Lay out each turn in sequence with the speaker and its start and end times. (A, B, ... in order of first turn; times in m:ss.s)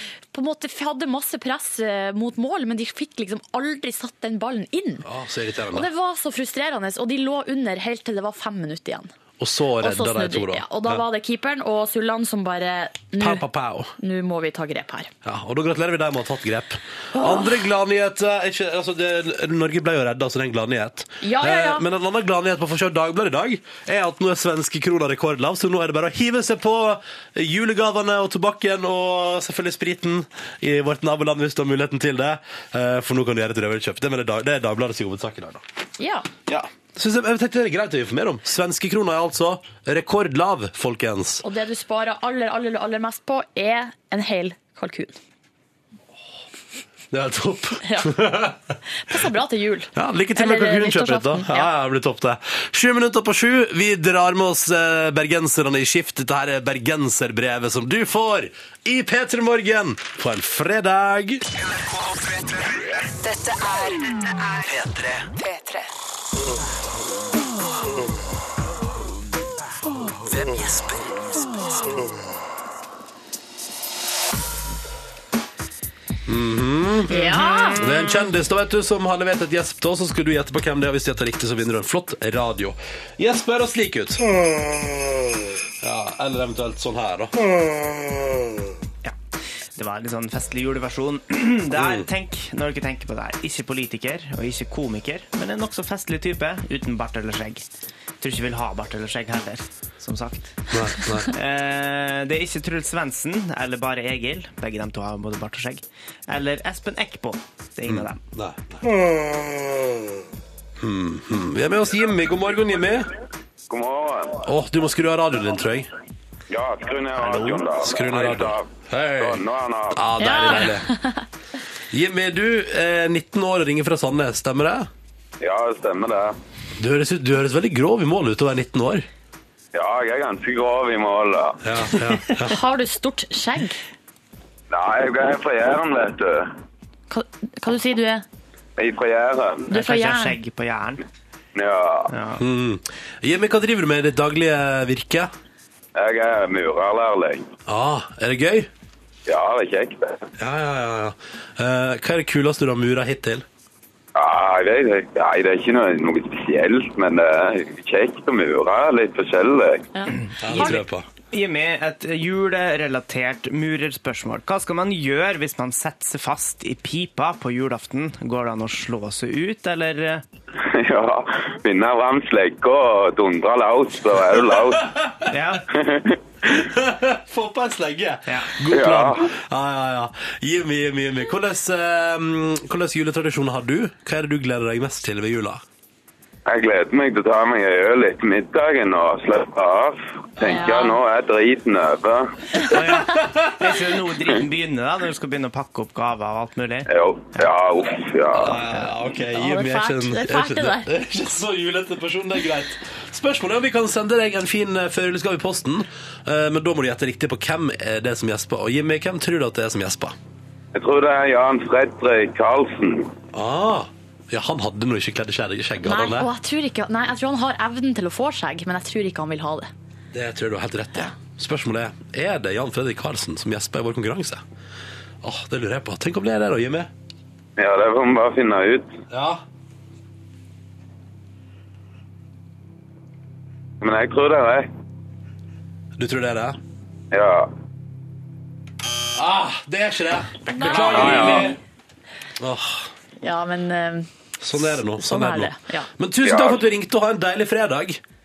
0:00.3-0:05.1 A
0:05.0-0:05.9 B
0:05.7-0:09.1 A
0:09.4-0:11.0 B
0:09.8-0:13.4 A
0:13.2-0:13.9 B
0:14.0-0:15.1 A
0:15.2-0:35.6 B
0:17.2-0:17.6 A
0:21.2-0:21.8 A
0:36.0-0:36.3 A
0:36.5-0:41.4 B
0:41.4-0:45.2 A
0:47.1-0:48.6 B
0:47.8-0:48.1 A
0:49.1-0:51.7 A
0:50.0-1:01.4 B
1:03.2-1:05.8 C
1:10.3-1:11.5 C
1:16.3-1:24.2 B
1:17.1-1:17.8 A
1:17.3-1:17.8 D
1:25.8-1:27.4 B
1:29.8-1:37.6 D
1:31.8-1:32.1 B
1:38.2-1:40.6 D
1:40.7-1:41.3 B
1:41.2-1:48.2 D
1:47.9-1:48.9 B
1:50.8-1:53.1 B
1:53.7-1:54.4 E
1:54.4-1:55.9 B
1:56.5-2:00.1 E
1:57.3-1:59.4 B
1:59.9-2:00.9 B
2:00.2-2:01.2 A
2:01.9-2:04.9 B
2:05.4-2:06.4 E
2:06.8-2:09.1 B
2:09.7-2:11.6 E
2:11.6-2:12.6 B
2:12.5-2:13.8 A
2:14.7-2:16.5 E
2:17.1-2:18.2 A
2:18.8-2:19.7 E
2:19.7-2:21.0 D
2:19.7-2:20.4 A
2:21.6-2:22.1 E
2:22.1-2:22.4 D
2:22.4-2:25.3 B
2:26.0-2:27.5 E
2:27.7-2:28.7 B
2:29.3-2:30.3 E
2:30.4-2:33.4 B
2:34.2-2:39.9 E
2:40.0-2:40.9 A
2:40.4-2:41.0 B
2:41.3-2:50.2 D
2:50.6-2:54.9 E
2:54.8-2:55.3 B
2:55.3-2:55.6 D
2:55.7-2:56.6 E
2:56.5-3:05.6 B
2:58.3-2:58.6 D
2:58.7-2:59.2 E
3:06.5-3:12.6 E
3:10.4-3:11.0 A
3:12.6-3:17.5 D
3:12.9-3:13.6 B
3:16.9-3:18.6 E
3:18.3-3:30.2 B
3:19.3-3:20.9 A
3:30.8-3:33.1 E
3:33.3-3:36.3 B
3:35.8-3:39.7 A
3:40.1-3:44.4 B
3:45.2-3:46.9 B
3:47.6-3:48.9 E
3:49.1-3:49.4 B
3:53.8-3:54.7 E
3:56.0-3:56.6 B
3:57.1-3:57.5 E
3:59.2-4:01.6 B
4:00.5-4:01.5 A
4:00.7-4:01.5 E
4:00.9-4:01.2 D
4:02.4-4:02.9 B
4:03.2-4:05.9 A
4:04.4-4:08.0 B
4:06.2-4:06.6 E